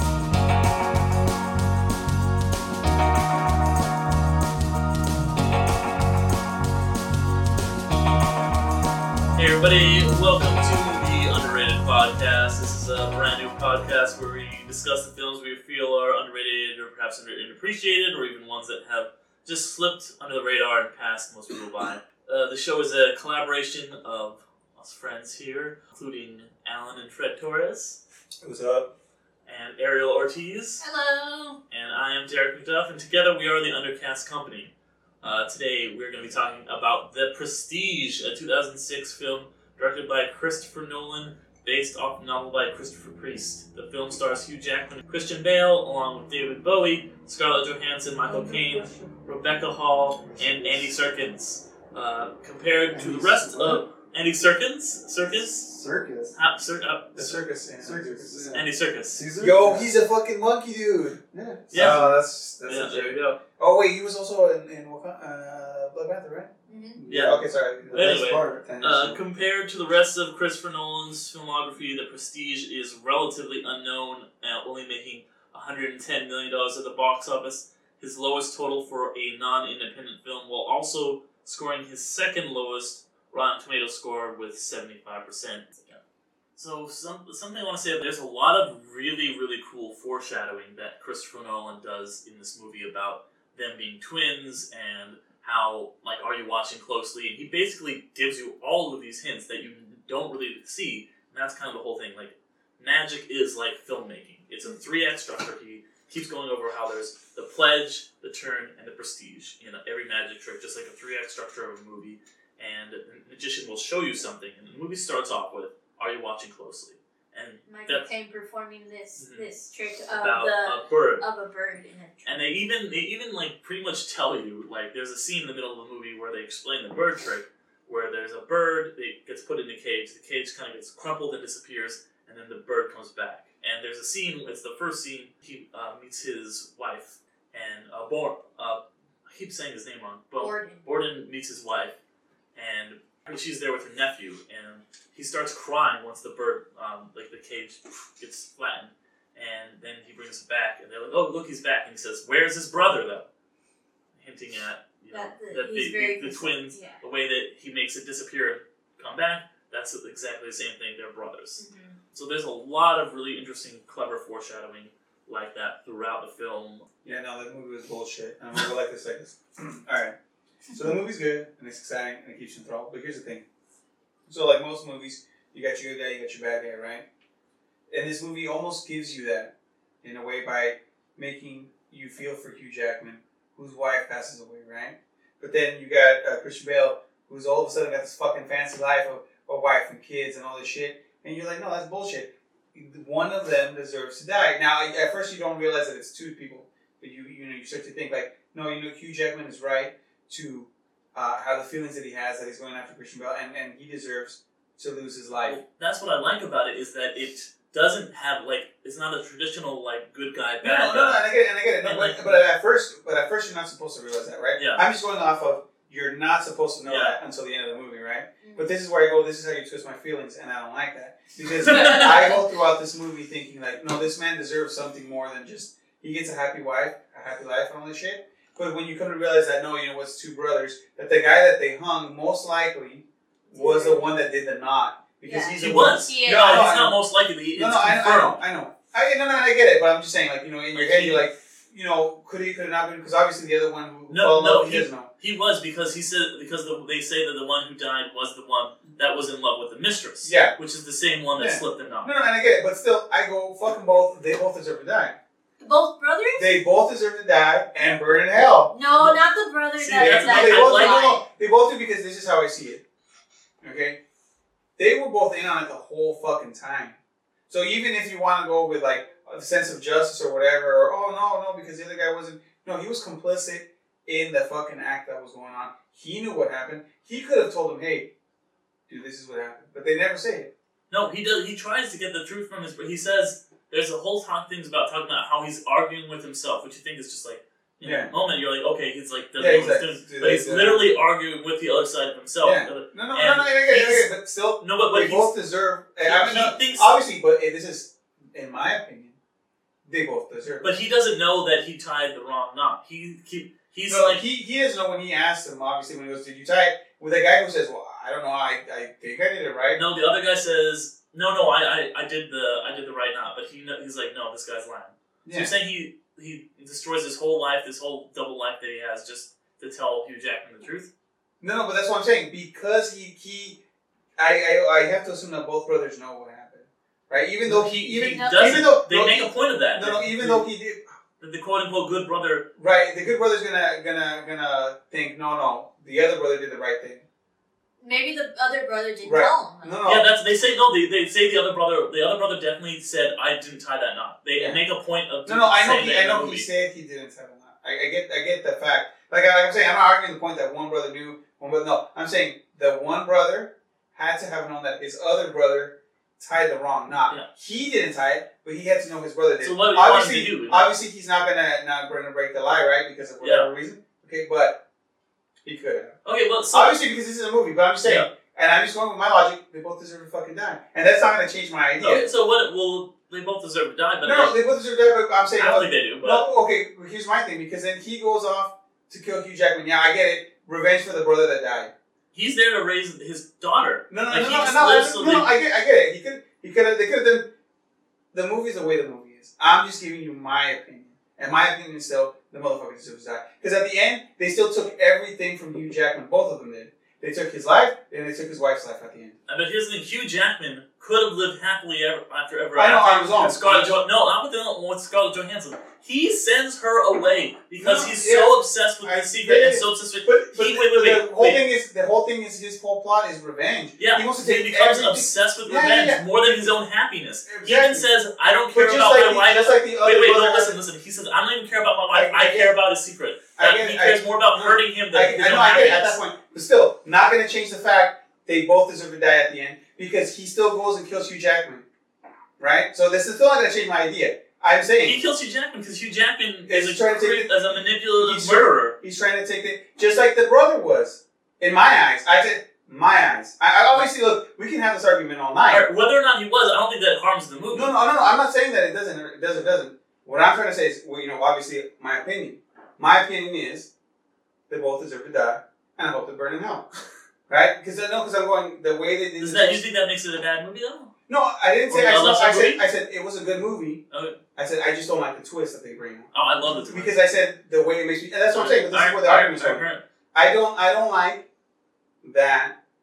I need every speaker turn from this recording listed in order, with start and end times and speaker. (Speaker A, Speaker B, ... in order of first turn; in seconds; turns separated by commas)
Speaker A: 9.3-28.0, Speaker B: 28.4-28.9, Speaker A: 29.5-30.8, Speaker C: 30.8-31.6, Speaker A: 31.7-55.7, Speaker D: 48.3-49.1, Speaker D: 50.3-50.9, Speaker D: 52.9-53.8, Speaker D: 55.3-56.4, Speaker A: 56.3-57.4, Speaker B: 57.1-58.4, Speaker D: 57.8-59.9, Speaker A: 58.5-59.2, Speaker B: 59.4-69.2, Speaker D: 61.3-62.2, Speaker A: 61.7-62.0, Speaker A: 62.7-63.4, Speaker C: 66.7-67.0, Speaker A: 67.1-85.8, Speaker D: 67.9-68.6, Speaker A: 86.6-118.1, Speaker C: 117.7-122.4, Speaker A: 119.2-119.5, Speaker A: 120.1-121.2, Speaker A: 122.3-142.0, Speaker C: 140.4-140.8, Speaker A: 142.6-153.3, Speaker A: 154.2-166.9, Speaker C: 155.1-157.0, Speaker C: 161.6-162.0, Speaker B: 167.1-170.2, Speaker B: 170.7-173.4, Speaker B: 174.3-177.0, Speaker B: 177.9-179.5, Speaker B: 180.0-205.6, Speaker A: 205.5-211.2, Speaker B: 210.6-237.0, Speaker A: 211.8-212.4, Speaker A: 214.6-214.8, Speaker A: 216.9-217.2, Speaker C: 218.4-218.7, Speaker A: 221.7-222.3, Speaker C: 221.7-222.3, Speaker C: 233.5-234.1, Speaker C: 235.2-236.7, Speaker A: 235.6-238.4, Speaker B: 237.6-245.1, Speaker A: 240.7-241.2, Speaker A: 244.1-252.1, Speaker B: 250.2-250.6, Speaker B: 251.4-255.2, Speaker C: 255.6-256.5, Speaker B: 256.4-258.7, Speaker C: 258.7-261.2, Speaker A: 259.8-261.2, Speaker B: 260.0-262.8, Speaker B: 263.6-264.0, Speaker B: 264.8-267.0, Speaker B: 267.5-278.1, Speaker B: 278.9-280.5, Speaker A: 280.9-295.3, Speaker B: 287.8-288.1, Speaker B: 289.4-290.8, Speaker B: 292.4-299.2, Speaker A: 296.0-297.0, Speaker B: 299.9-300.7, Speaker A: 300.6-304.2, Speaker B: 303.9-309.8, Speaker A: 309.7-320.9, Speaker B: 315.2-315.5, Speaker B: 321.4-323.6, Speaker B: 324.2-330.8, Speaker A: 327.4-330.4, Speaker C: 328.1-328.6, Speaker A: 331.2-332.5, Speaker B: 332.6-337.0, Speaker C: 337.8-339.8, Speaker B: 339.0-340.1, Speaker A: 339.9-346.5, Speaker B: 344.3-344.6, Speaker B: 345.3-364.6, Speaker A: 359.4-360.7, Speaker A: 363.2-363.5, Speaker B: 365.4-366.0, Speaker A: 366.1-366.8, Speaker B: 366.5-372.1, Speaker A: 367.8-368.1, Speaker A: 371.8-374.5, Speaker B: 374.0-381.7, Speaker A: 375.4-376.2, Speaker A: 382.1-385.4, Speaker B: 383.9-387.3, Speaker B: 388.1-399.2, Speaker A: 399.3-411.4, Speaker B: 402.6-403.8, Speaker B: 407.6-416.5, Speaker A: 413.8-426.0, Speaker B: 417.3-417.9, Speaker B: 418.5-420.6, Speaker B: 421.9-422.5, Speaker B: 423.4-431.6, Speaker B: 432.4-435.0, Speaker A: 434.8-438.8, Speaker B: 436.5-445.6, Speaker A: 445.5-447.7, Speaker B: 447.5-453.7, Speaker B: 454.5-456.7, Speaker B: 457.3-459.6, Speaker A: 459.2-460.9, Speaker B: 461.1-463.8, Speaker A: 461.7-462.6, Speaker A: 463.9-464.2, Speaker B: 464.4-466.1, Speaker A: 466.1-466.9, Speaker B: 466.6-469.6, Speaker A: 468.3-469.8, Speaker B: 470.1-471.2, Speaker B: 472.0-472.6